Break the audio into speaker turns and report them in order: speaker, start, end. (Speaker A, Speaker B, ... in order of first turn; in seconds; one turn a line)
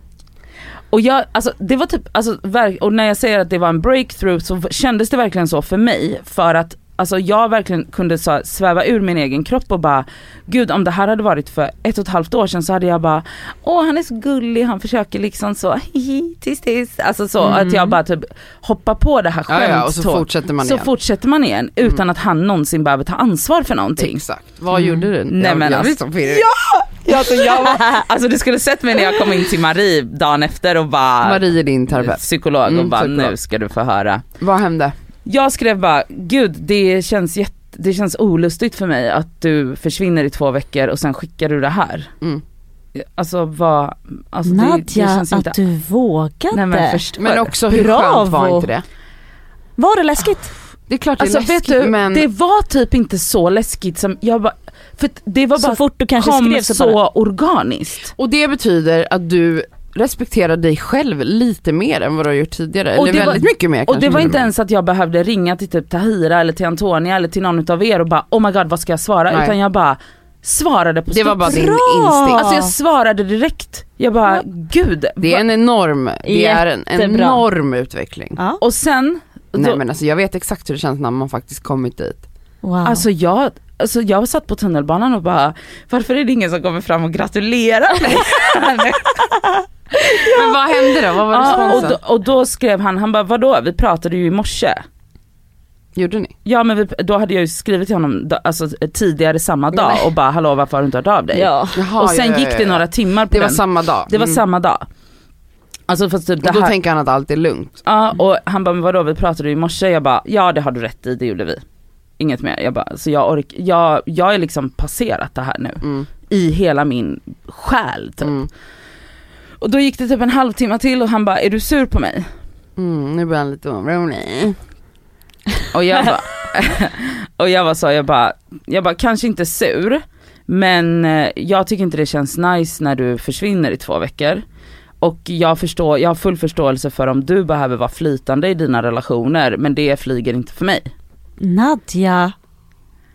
Speaker A: 0.9-24.2
Speaker B: 17.4-17.9
Speaker C: 19.5-20.9
Speaker C: 24.0-26.5
Speaker A: 25.3-34.2
Speaker C: 31.2-33.3
Speaker C: 34.4-35.0
Speaker A: 35.3-42.1
Speaker A: 43.0-45.6
Speaker B: 44.5-47.0
Speaker A: 46.5-47.5
Speaker C: 47.2-48.8
Speaker B: 47.7-48.7
Speaker B: 49.8-50.5
Speaker C: 50.9-52.2
Speaker A: 51.2-58.1
Speaker B: 55.6-57.0
Speaker C: 58.2-64.5
Speaker A: 63.0-71.7
Speaker C: 69.3-69.5
Speaker C: 71.1-72.5
Speaker B: 71.5-72.7
Speaker A: 72.3-75.4
Speaker C: 75.2-78.4
Speaker B: 76.2-77.4
Speaker A: 78.6-79.8
Speaker C: 79.5-82.2
Speaker B: 82.6-83.0
Speaker A: 82.8-89.3
Speaker C: 90.2-92.0
Speaker A: 91.3-94.8
Speaker B: 91.5-91.9
Speaker C: 96.0-96.3
Speaker A: 96.5-104.9
Speaker B: 99.8-100.0
Speaker B: 101.3-101.8
Speaker C: 101.7-104.4
Speaker A: 105.9-106.8
Speaker C: 106.4-107.8
Speaker A: 107.8-111.6
Speaker A: 112.2-118.3
Speaker C: 118.2-118.5
Speaker A: 119.6-122.3
Speaker C: 122.8-124.6
Speaker A: 125.7-134.4
Speaker A: 135.0-140.9
Speaker B: 141.4-142.3